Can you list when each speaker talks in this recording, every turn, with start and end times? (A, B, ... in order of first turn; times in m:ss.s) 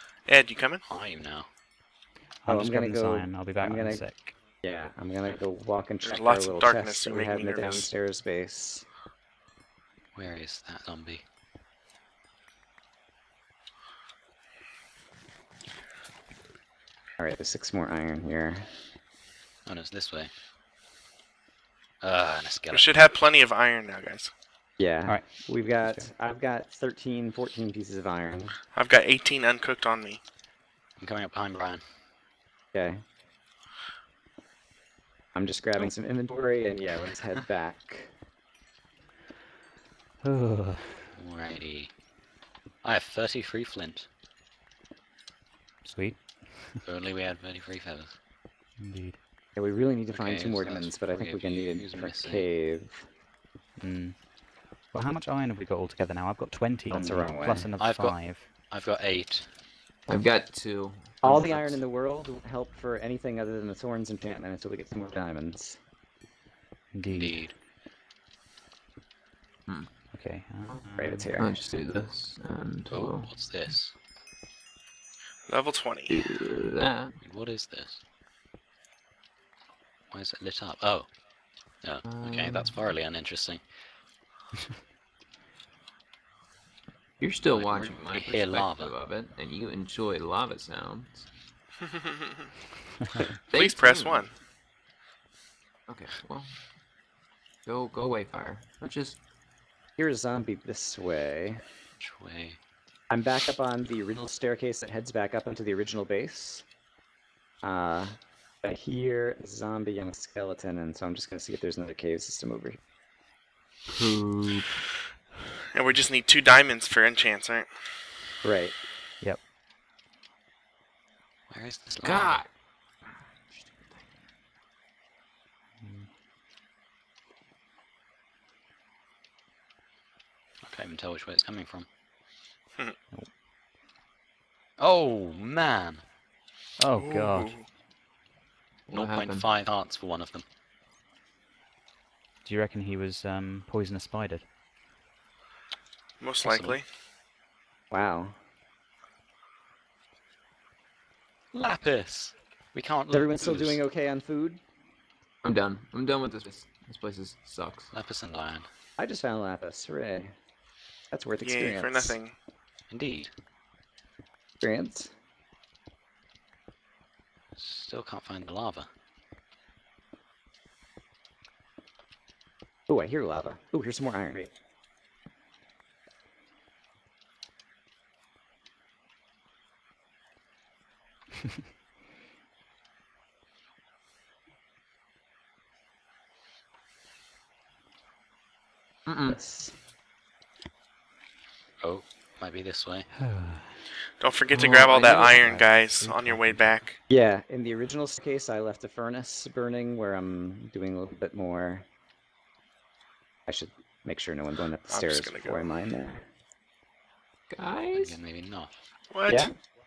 0:00.3-0:00.8 A
0:00.9-0:01.5 B
0:02.4-0:04.3 C
0:02.5-0:04.0 D
0:04.6-0:08.8 D
0:06.0-0:07.9 A
0:10.1-0:11.2 B
0:17.2-0:18.7 D
0:19.6-0:20.3 B
0:22.0-0:22.9 B
0:22.7-0:24.3 A
0:24.8-0:28.6 D
0:25.0-0:26.0 C
0:28.7-0:30.2 A
0:31.0-0:31.8 B
0:32.7-0:33.0 D
0:35.3-0:38.1 D
0:40.2-0:41.1 C
0:41.2-0:41.9 B
0:42.8-0:44.1 B
0:45.8-0:46.8 C
0:46.8-0:48.1 B
0:48.8-0:49.2 C
0:49.6-0:53.1 D
0:50.1-0:52.5 B
0:53.8-0:54.3 C
0:54.8-0:58.5 C
0:56.9-0:57.7 D
0:57.8-0:59.5 B
1:00.1-1:01.8 E
1:01.2-1:05.8 D
1:06.9-1:07.5 C
1:07.1-1:07.5 B
1:10.1-1:11.4 C
1:11.0-1:11.6 D
1:11.4-1:13.3 E
1:12.9-1:13.9 B
1:15.5-1:16.2 A
1:16.1-1:17.1 E
1:17.2-1:18.0 B
1:20.1-1:21.1 B
1:21.8-1:23.6 B
1:22.0-1:22.9 E
1:27.2-1:31.3 E
1:27.5-1:28.9 B
1:33.5-1:34.3 E
1:33.5-1:34.3 A
1:35.9-1:36.6 E
1:37.6-1:39.2 E
1:40.0-1:41.6 D
1:42.0-1:42.6 B
1:43.1-1:46.6 D
1:47.6-1:52.8 D
1:53.9-1:54.8 E
1:55.7-1:57.7 A
1:58.4-1:58.8 D
2:01.5-2:02.4 B
2:02.0-2:02.5 E
2:03.5-2:04.0 E
2:05.8-2:06.1 C
2:10.6-2:11.9 B
2:14.8-2:16.0 B
2:16.8-2:17.6 C
2:17.0-2:17.6 A
2:18.9-2:19.5 E
2:18.9-2:20.4 B
2:22.4-2:24.5 C
2:26.2-2:26.8 A
2:26.4-2:26.8 B
2:27.9-2:28.4 D
2:31.5-2:33.8 B
2:33.1-2:34.6 D
2:35.4-2:37.9 E
2:37.9-2:38.7 B
2:39.0-2:40.3 D
2:41.1-2:42.2 D
2:41.4-2:42.3 A
2:42.9-2:43.3 B
2:44.6-2:45.1 D
2:47.6-2:48.9 B
2:52.9-2:54.5 D
3:09.0-3:09.4 E
3:09.3-3:09.8 D
3:11.8-3:13.1 B
3:13.1-3:13.8 C
3:14.2-3:17.0 A
3:14.5-3:16.8 C
3:14.6-3:15.1 E
3:17.1-3:21.8 D
3:23.5-3:26.2 D
3:24.9-3:25.7 A
3:27.5-3:28.2 E
3:27.9-3:28.8 B
3:29.1-3:29.5 A
3:29.3-3:29.5 D